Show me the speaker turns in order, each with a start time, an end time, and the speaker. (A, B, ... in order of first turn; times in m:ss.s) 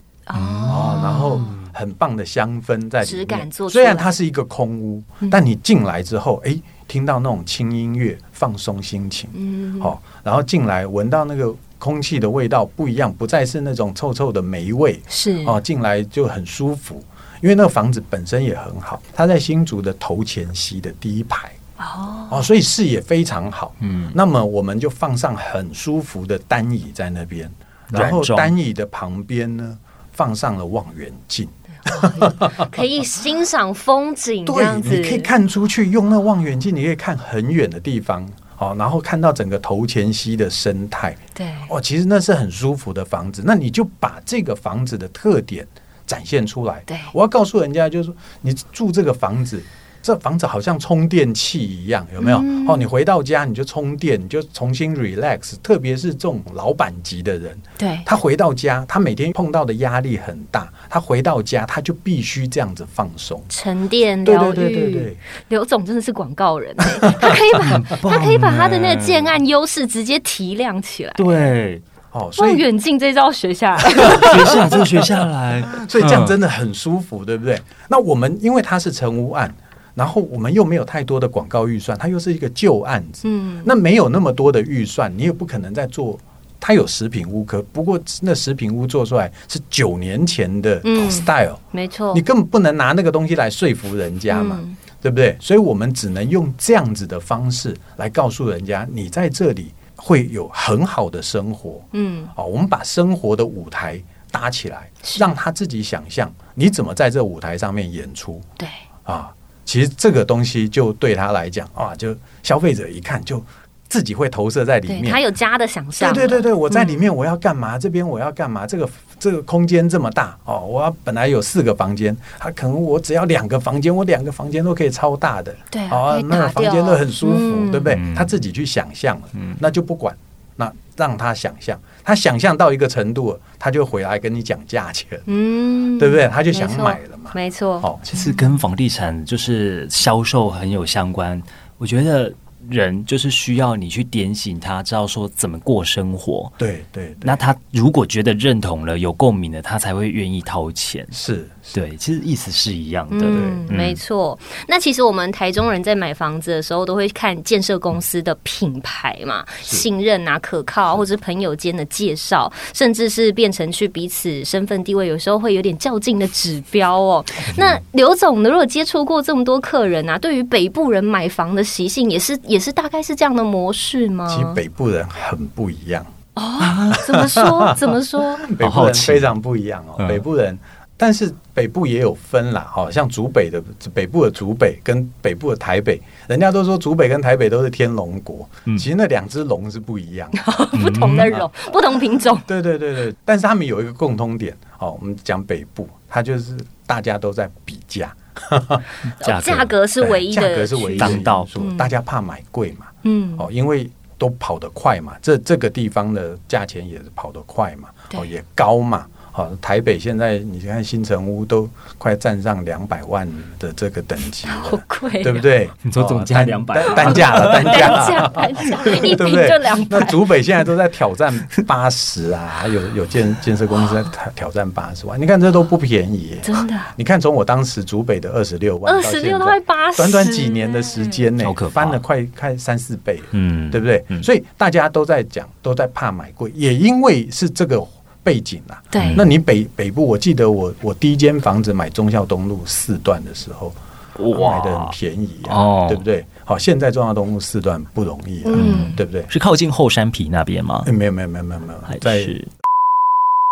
0:00.3-0:01.5 A
0:00.3-0:01.6 B
0:00.7-0:21.6 C
0:03.0-0:04.1 A
0:09.3-0:09.9 A
0:15.1-0:15.6 A
0:21.8-0:22.4 A
0:22.3-0:32.7 C
0:23.8-0:24.1 B
0:27.9-0:28.5 B
0:31.8-0:35.3 A
0:34.4-1:03.5 C
0:41.4-0:41.7 A
0:46.9-0:47.1 A
0:52.2-0:52.8 A
0:57.8-0:58.1 A
1:03.5-1:11.3 A
1:04.2-1:05.2 C
1:06.9-1:07.4 C
1:07.6-1:09.4 B
1:11.2-1:11.8 B
1:12.1-1:12.6 C
1:12.4-1:14.6 A
1:13.9-1:14.8 C
1:14.0-1:16.4 B
1:15.7-1:31.6 C
1:23.2-1:23.7 A
1:30.8-1:32.2 A
1:32.1-1:48.4 C
1:34.3-1:34.8 A
1:41.9-1:42.3 A
1:45.0-1:45.3 A
1:49.0-1:55.2 C
1:54.9-1:57.0 A
1:56.0-2:15.3 C
2:05.7-2:08.0 A
2:07.9-2:08.3 B
2:15.3-2:17.9 A
2:16.0-2:18.0 C
2:18.1-2:26.6 B
2:26.6-2:27.4 C
2:27.2-2:31.2 B
2:31.1-2:31.7 C
2:31.7-2:34.0 B
2:33.1-2:54.6 A
2:33.3-2:33.7 C
2:54.3-2:56.1 C
2:56.4-2:58.5 A
2:56.6-2:57.0 B
2:56.9-3:10.4 C
2:58.6-2:59.3 B
3:10.4-3:12.4 A
3:10.7-3:11.4 B
3:12.4-3:18.8 C
3:19.2-3:19.7 B
3:19.2-3:21.9 A
3:20.0-4:03.8 C
3:21.0-3:21.5 B
3:23.0-3:23.4 A
3:34.5-3:35.5 A
3:35.8-3:38.1 B
3:37.2-3:40.3 A
3:46.4-3:46.9 A
3:48.8-3:51.2 A
3:51.4-3:52.0 B
3:53.3-3:54.3 B
3:58.9-3:59.3 A
3:59.0-3:59.3 B
4:04.2-4:06.0 B
4:04.3-4:09.3 C
4:08.4-4:09.0 A
4:08.6-4:10.9 B
4:10.8-4:12.4 C
4:11.9-4:12.5 B